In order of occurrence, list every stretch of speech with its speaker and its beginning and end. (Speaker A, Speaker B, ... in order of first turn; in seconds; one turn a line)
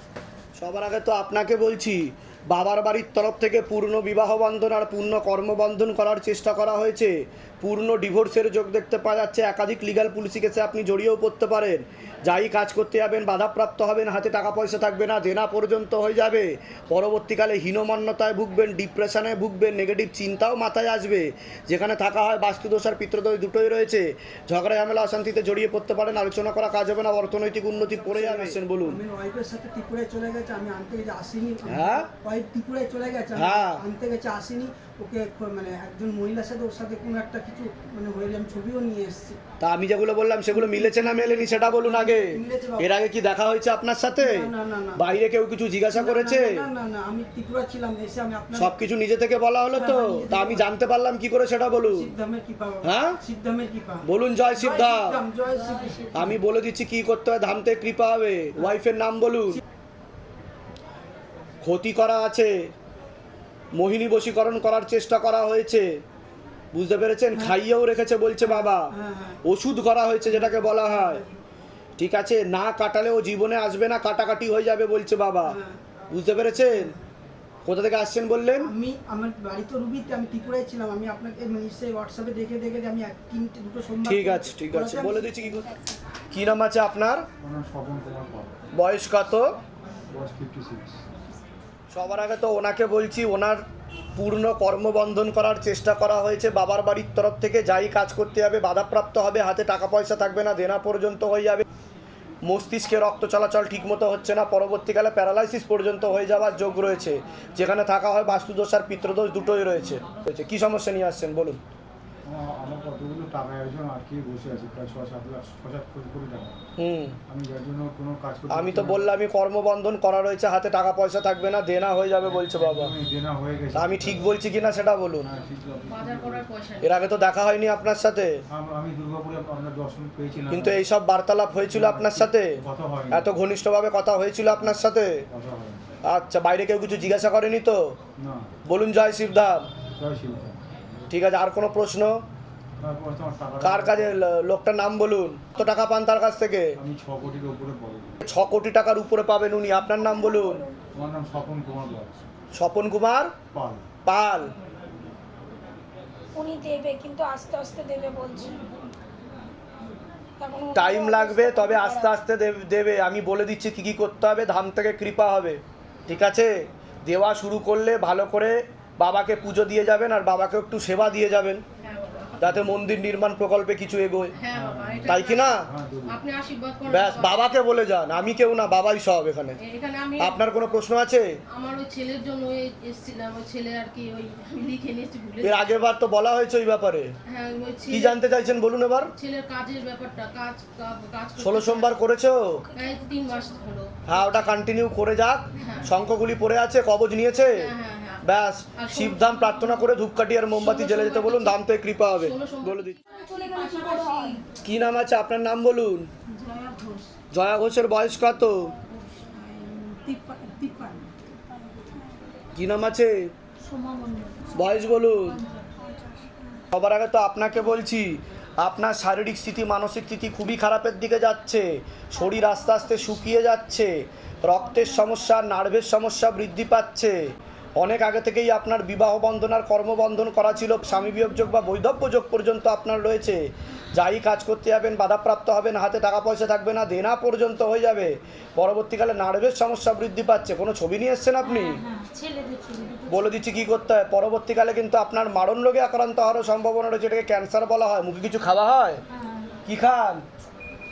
Speaker A: 0.6-29.0
Speaker B: 27.9-39.4
Speaker A: 31.7-32.1
Speaker A: 33.4-33.8
Speaker A: 39.6-46.6
Speaker B: 40.5-42.9
Speaker B: 44.2-45.0
Speaker B: 45.9-48.8
Speaker A: 48.6-52.1
Speaker B: 49.8-50.7
Speaker B: 51.8-56.4
Speaker A: 52.8-53.2
Speaker A: 54.0-55.2
Speaker A: 56.1-59.6
Speaker A: 61.6-62.7
Speaker A: 63.8-65.9
Speaker A: 66.7-68.9
Speaker B: 68.4-69.4
Speaker A: 69.5-71.2
Speaker B: 70.4-71.3
Speaker A: 72.0-75.6
Speaker B: 75.4-75.8
Speaker A: 76.1-76.9
Speaker A: 77.7-78.7
Speaker B: 78.6-85.5
Speaker A: 84.1-85.7
Speaker C: 85.4-85.8
Speaker A: 86.3-87.3
Speaker D: 87.4-88.6
Speaker A: 88.7-89.5
Speaker D: 90.1-91.0
Speaker A: 91.9-93.6
Speaker A: 94.2-101.7
Speaker A: 102.5-111.6
Speaker D: 112.2-116.6
Speaker A: 116.8-117.2
Speaker D: 117.3-119.2
Speaker A: 118.5-122.9
Speaker D: 122.2-124.3
Speaker A: 123.8-125.3
Speaker D: 125.2-126.5
Speaker E: 125.9-126.9
Speaker A: 126.8-128.4
Speaker D: 128.5-130.8
Speaker A: 130.5-132.6
Speaker D: 131.7-133.3
Speaker A: 133.1-135.2
Speaker D: 135.3-135.8
Speaker A: 136.1-137.9
Speaker D: 138.2-138.5
Speaker A: 138.7-139.7
Speaker D: 140.0-140.6
Speaker A: 141.1-142.1
Speaker D: 142.8-144.2
Speaker A: 143.6-146.7
Speaker D: 146.8-148.2
Speaker A: 148.2-150.6
Speaker C: 150.0-150.8
Speaker D: 150.9-152.3
Speaker A: 152.6-153.3
Speaker D: 153.5-153.9
Speaker A: 154.1-154.5
Speaker C: 156.4-158.6
Speaker C: 160.4-162.1
Speaker A: 160.7-171.6
Speaker E: 171.8-172.8
Speaker A: 172.4-174.3
Speaker E: 174.4-175.6
Speaker D: 174.5-176.3
Speaker A: 175.1-175.7
Speaker E: 176.1-177.4
Speaker A: 176.9-179.6
Speaker E: 179.6-180.8
Speaker A: 180.2-181.3
Speaker E: 181.6-185.7
Speaker A: 185.4-187.1
Speaker E: 187.3-188.2
Speaker A: 187.9-189.1
Speaker E: 189.2-192.0
Speaker A: 191.4-192.7
Speaker E: 192.7-194.2
Speaker A: 194.1-197.7
Speaker E: 195.6-195.9
Speaker E: 197.5-198.2
Speaker A: 198.2-203.0
Speaker E: 198.8-199.8
Speaker E: 200.6-201.6
Speaker E: 202.2-203.0
Speaker C: 203.1-204.4
Speaker F: 203.1-204.4
Speaker A: 204.6-206.1
Speaker F: 206.3-207.1
Speaker A: 207.3-208.7
Speaker F: 208.9-209.4
Speaker C: 209.6-212.0
Speaker A: 212.6-213.3
Speaker F: 213.6-215.7
Speaker A: 214.5-215.4
Speaker C: 215.8-216.3
Speaker A: 216.7-223.9
Speaker F: 222.2-223.1
Speaker A: 224.4-227.2
Speaker F: 224.7-225.1
Speaker A: 227.8-241.8
Speaker F: 241.4-243.4
Speaker A: 243.1-249.0
Speaker F: 249.1-249.6
Speaker A: 249.7-250.2